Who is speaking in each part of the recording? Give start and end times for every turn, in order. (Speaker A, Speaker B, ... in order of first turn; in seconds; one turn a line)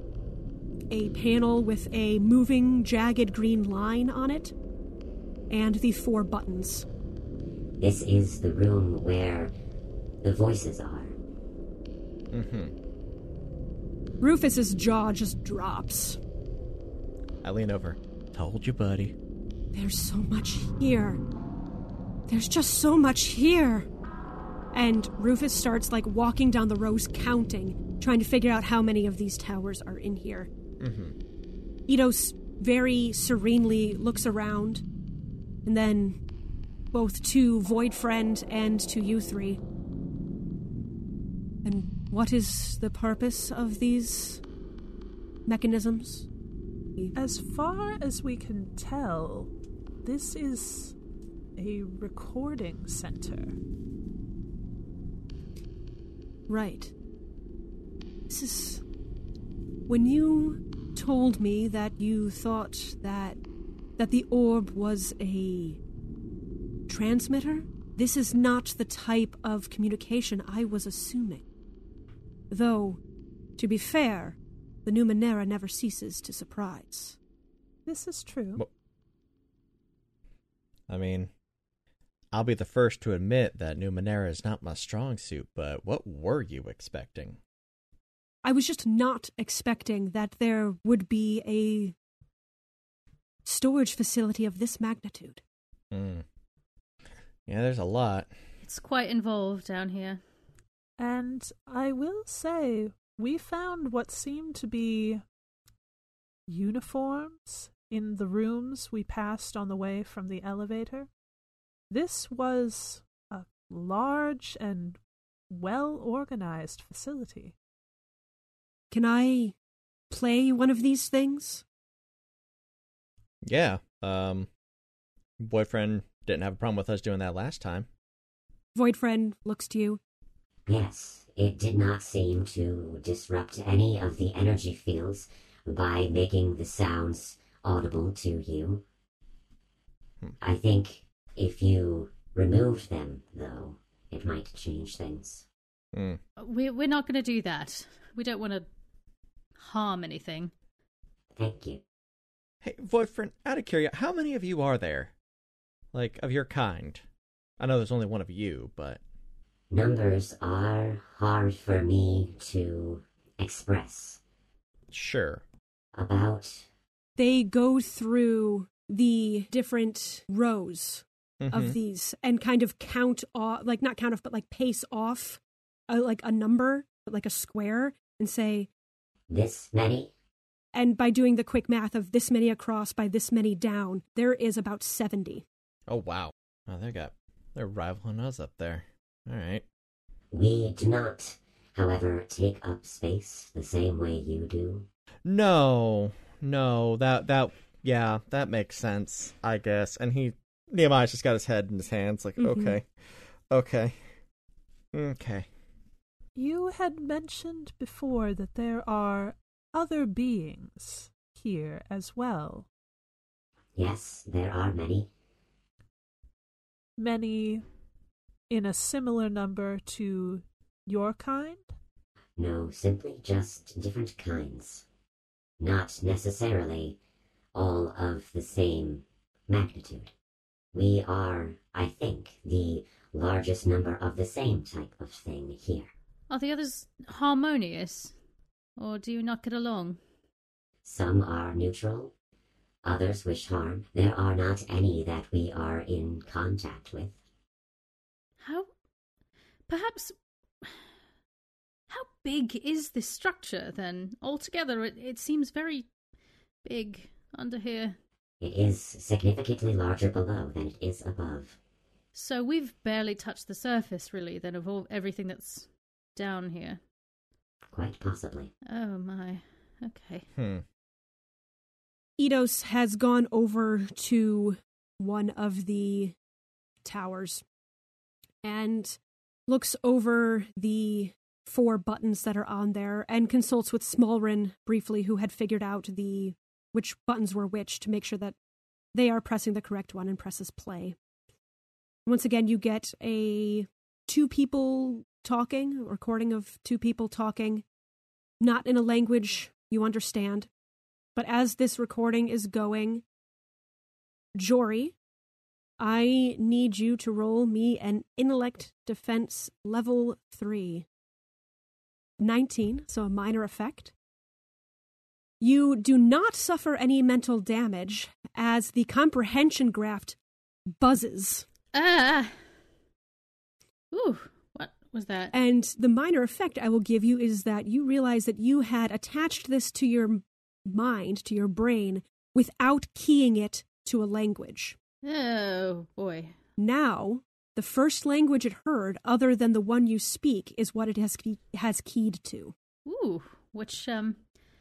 Speaker A: 0.9-4.5
Speaker A: 5.5-6.9
Speaker B: 7.8-9.5
Speaker B: 10.2-11.1
Speaker C: 12.3-12.7
Speaker A: 14.2-16.2
Speaker C: 17.4-19.1
Speaker A: 19.7-21.2
Speaker A: 22.3-23.9
Speaker A: 24.7-30.5
Speaker C: 30.8-31.1
Speaker A: 31.9-34.8
Speaker A: 35.6-36.2
Speaker A: 36.9-39.6
Speaker A: 41.6-44.4
Speaker A: 45.5-46.3
Speaker D: 47.1-49.5
Speaker D: 50.0-50.9
Speaker D: 51.5-53.6
Speaker A: 56.5-56.9
Speaker A: 58.3-58.8
Speaker A: 59.9-63.4
Speaker A: 64.0-65.8
Speaker A: 66.9-71.4
Speaker A: 72.5-73.0
Speaker A: 73.6-77.2
Speaker D: 77.9-78.6
Speaker C: 80.9-81.3
Speaker C: 82.3-87.4
Speaker A: 88.4-91.9
Speaker A: 93.4-95.4
Speaker C: 95.9-96.2
Speaker C: 97.5-98.3
Speaker E: 98.6-100.2
Speaker D: 101.0-105.2
Speaker D: 106.5-111.1
Speaker D: 111.9-115.0
Speaker D: 115.5-117.5
Speaker A: 118.9-119.5
Speaker A: 120.1-121.6
Speaker C: 123.4-124.5
Speaker C: 125.4-127.9
Speaker A: 128.7-130.0
Speaker B: 130.7-138.8
Speaker B: 140.4-145.4
Speaker C: 145.9-146.2
Speaker E: 146.4-148.7
Speaker E: 149.6-150.5
Speaker B: 151.4-151.8
Speaker C: 152.6-155.1
Speaker C: 155.9-157.0
Speaker C: 157.6-159.0
Speaker B: 159.7-164.2
Speaker C: 164.9-165.4
Speaker B: 165.9-166.7
Speaker A: 167.2-178.7
Speaker C: 171.4-171.8
Speaker B: 179.3-180.1
Speaker A: 180.7-185.4
Speaker C: 185.9-189.6
Speaker B: 190.3-194.9
Speaker C: 195.2-202.9
Speaker A: 202.4-202.8
Speaker C: 203.5-204.0
Speaker C: 204.9-205.5
Speaker D: 206.3-212.7
Speaker B: 213.8-215.1
Speaker D: 217.0-217.6
Speaker D: 218.5-221.7
Speaker B: 222.4-224.8
Speaker B: 225.6-227.0
Speaker B: 227.5-230.1
Speaker B: 230.7-235.9
Speaker E: 236.3-238.1
Speaker E: 238.8-240.0
Speaker B: 240.8-242.1
Speaker B: 242.8-247.2
Speaker E: 248.4-248.7
Speaker E: 249.7-250.8
Speaker E: 251.9-255.9
Speaker E: 256.6-258.0
Speaker B: 258.4-261.6
Speaker E: 262.1-266.8
Speaker B: 267.7-268.5
Speaker E: 268.6-270.2
Speaker C: 270.4-270.6
Speaker A: 272.2-276.1
Speaker A: 276.8-277.4
Speaker A: 278.4-288.4
Speaker A: 288.9-290.9
Speaker A: 292.1-297.6
Speaker A: 298.4-300.5
Speaker A: 301.1-303.0
Speaker A: 304.4-304.9
Speaker A: 305.8-310.9
Speaker A: 312.2-313.9
Speaker A: 315.4-320.2
Speaker A: 320.8-321.4
Speaker E: 321.7-322.3
Speaker E: 323.9-325.3
Speaker A: 325.3-334.8
Speaker E: 335.0-336.3
Speaker A: 336.6-342.5
Speaker E: 342.9-344.2